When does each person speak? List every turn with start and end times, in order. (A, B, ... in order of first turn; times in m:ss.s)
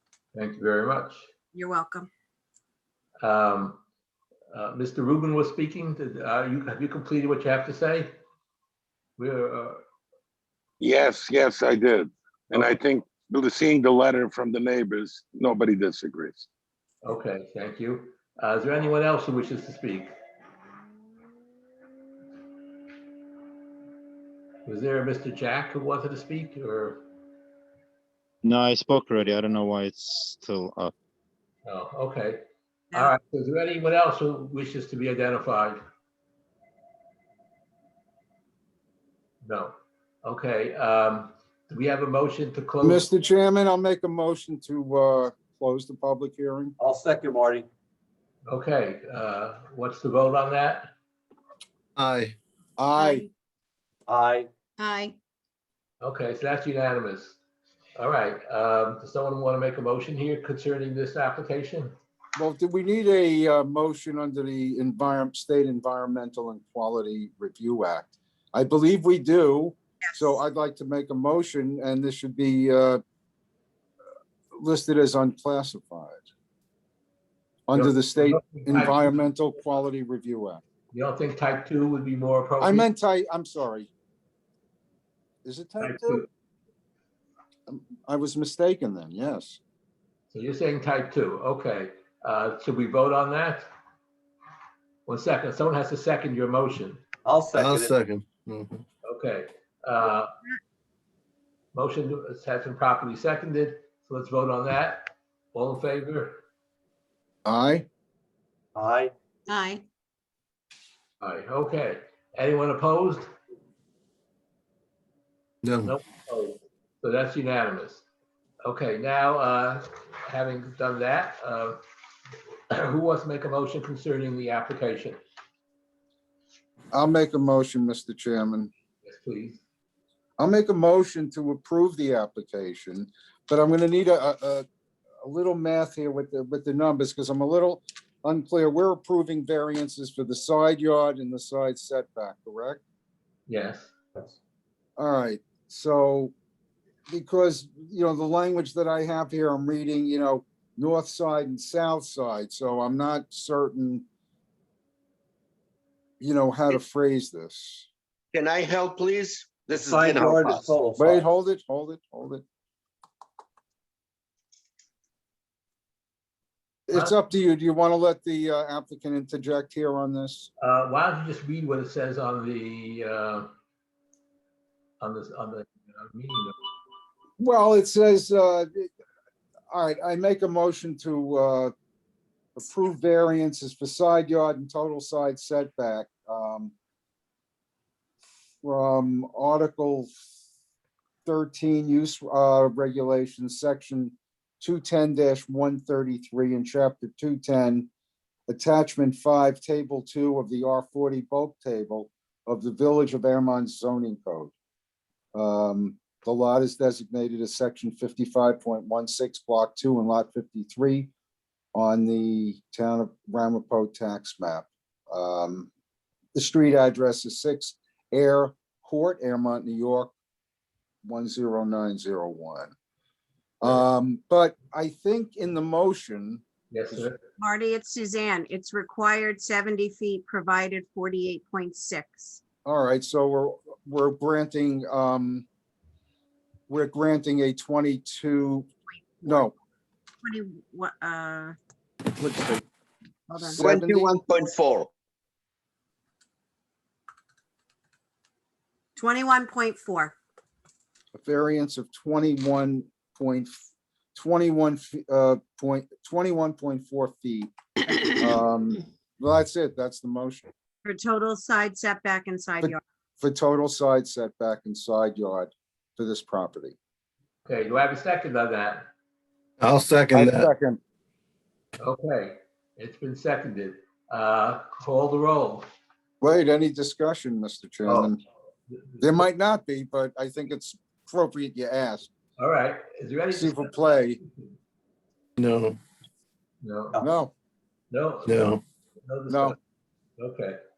0:00.4-0:01.3 A
0:01.5-0:02.1 B
0:03.2-0:03.8 A
0:04.5-0:08.1 A
0:09.2-0:09.8 A
0:10.8-0:16.5 C
0:12.5-0:12.8 A
0:17.0-0:20.1 A
0:24.7-0:27.0 A
0:28.4-0:30.9 D
0:31.7-0:32.4 A
0:32.9-0:35.8 A
0:39.4-0:39.7 A
0:40.2-0:43.1 A
0:42.8-0:46.8 E
0:46.8-0:47.7 F
0:48.5-0:50.9 A
0:52.0-0:52.4 G
0:52.8-0:53.3 E
0:53.0-0:53.3 B
0:54.1-0:54.5 F
0:54.8-0:55.1 B
0:56.0-0:57.4 A
0:58.0-1:01.9 A
1:02.4-1:13.0 E
1:14.6-1:16.2 E
1:17.7-1:20.6 E
1:17.7-1:19.2 A
1:20.9-1:22.9 A
1:22.6-1:23.9 E
1:25.4-1:26.2 E
1:25.8-1:26.3 A
1:27.7-1:29.6 E
1:30.3-1:33.7 A
1:35.1-1:37.0 A
1:37.2-1:37.9 F
1:37.5-1:38.8 G
1:39.0-1:40.3 A
1:41.7-1:46.4 A
1:47.4-1:47.9 E
1:48.8-1:49.1 F
1:49.5-1:49.8 B
1:51.2-1:53.3 A
1:55.6-1:55.9 G
1:55.8-1:58.0 A
1:58.6-2:01.8 A
2:02.7-2:05.2 A
2:06.9-2:08.7 E
2:09.0-2:09.6 A
2:10.4-2:14.6 E
2:15.2-2:22.8 E
2:23.5-2:23.9 A
2:25.0-2:26.3 E
2:27.1-2:34.0 E
2:36.2-2:37.9 E
2:38.3-2:40.7 H
2:39.7-2:41.2 F
2:41.0-2:42.4 E
2:46.9-2:50.5 E
2:50.6-2:53.5 A
2:55.0-2:56.5 A
2:57.4-2:58.9 E
2:59.7-3:01.7 E
3:02.6-3:06.7 E
3:08.6-3:10.1 E
3:11.3-3:17.9 E
3:18.5-3:24.5 E
3:25.4-3:31.1 E
3:31.7-3:35.7 E
3:36.4-3:40.1 E
3:41.0-3:42.7 E
3:43.6-3:47.1 E
3:46.7-3:47.2 A
3:47.4-3:52.4 B
3:52.6-3:55.5 E
3:56.7-3:58.7 E
3:58.9-3:59.5 B
3:59.2-3:59.5 E
4:00.2-4:01.6 B
4:02.2-4:02.6 E
4:03.3-4:03.6 B
4:03.5-4:04.1 E
4:03.6-4:04.9 H
4:09.0-4:10.2 B
4:11.2-4:13.6 E
4:14.2-4:17.5 E
4:18.2-4:20.5 E
4:20.8-4:22.8 B
4:22.6-4:26.8 E
4:27.5-4:28.9 A
4:29.6-4:30.5 G
4:30.1-4:30.8 E
4:31.8-4:35.7 A
4:36.2-4:38.2 E
4:37.9-4:38.1 A
4:38.7-4:39.2 A
4:39.0-4:42.1 E
4:42.4-4:44.5 A
4:43.3-4:44.2 E
4:45.4-4:45.8 G
4:46.6-4:47.0 A
4:47.0-4:47.3 E
4:47.9-4:49.6 A
4:48.3-4:48.6 G
4:49.3-4:49.6 E
4:50.2-4:50.6 A